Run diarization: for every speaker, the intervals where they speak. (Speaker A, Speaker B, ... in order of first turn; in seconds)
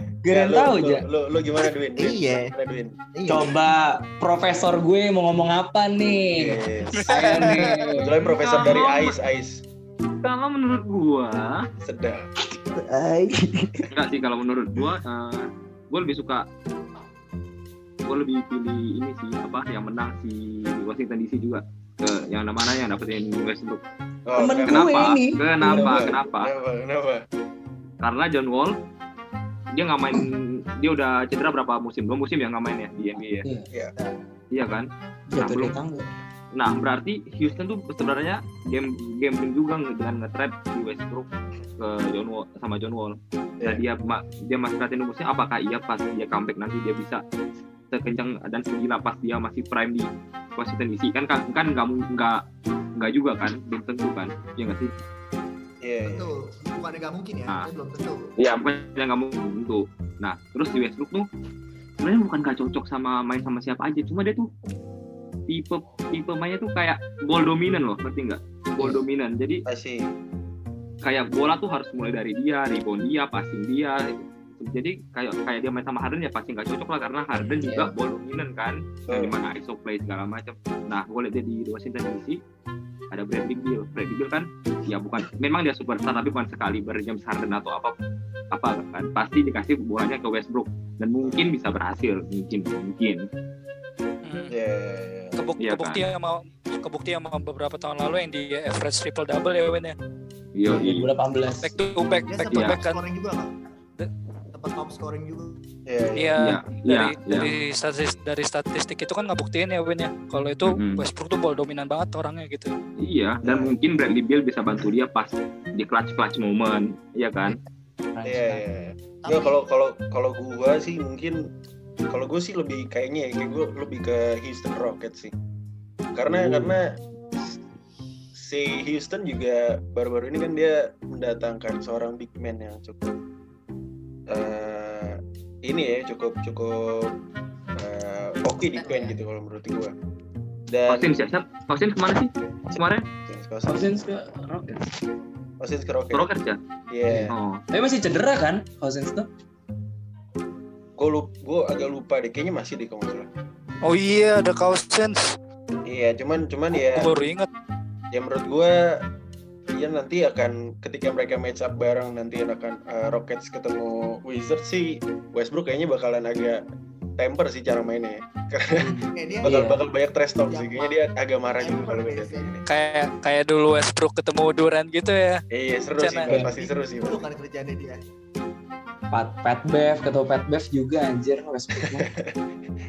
Speaker A: 0.2-1.0, 3.3-8.1, 13.4-13.8, 24.3-26.0, 33.1-33.7, 35.3-36.1, 77.6-77.9, 100.7-101.7, 118.1-118.6, 126.2-126.8, 138.8-139.2, 143.7-144.9, 147.1-149.3, 168.8-169.8, 179.1-182.1
Speaker B: 0.3-2.9, 6.3-9.6, 11.8-12.2, 24.3-24.9, 25.6-27.2, 55.8-56.3, 69.7-70.1, 79.1-79.3, 91.2-91.5, 94.5-95.3, 105.9-106.4, 113.4-113.7, 118.2-121.4, 122.1-125.3, 126.1-127.0, 128.3-133.2, 134.3-137.1, 137.8-139.9, 140.7-141.3, 142.7-143.9, 145.6-146.3, 146.9-147.3, 151.0-153.3, 155.8-157.1, 158.1-159.0, 159.7-166.6, 167.2-168.9, 169.4-172.6, 175.5-177.2, 181.9-182.4
Speaker C: 2.0-2.5, 3.1-3.5, 12.8-13.8, 56.0-58.3, 102.3-103.5, 104.5-105.6, 119.2-119.6, 169.2-169.7, 170.5-171.1, 171.6-172.6, 176.5-178.0
Speaker D: 7.0-7.9, 94.2-94.5, 95.3-99.9, 101.6-103.0, 106.1-112.7, 153.8-155.3, 156.7-157.5, 172.7-175.4, 175.9-176.3
Speaker E: 8.2-9.2, 10.2-11.6, 13.9-16.4, 18.1-23.8, 24.6-26.5, 28.0-28.7, 29.7-33.5, 34.5-35.7, 36.5-47.2, 47.9-52.4, 53.0-54.9, 58.4-61.2, 62.0-64.5, 65.5-69.6, 71.0-82.4, 83.1-87.9, 88.5-93.2, 95.6-96.0, 100.5-101.1, 102.5-102.8, 106.4-107.5, 110.6-111.0, 113.0-117.6, 140.9-143.0, 146.1-146.6, 147.3-147.6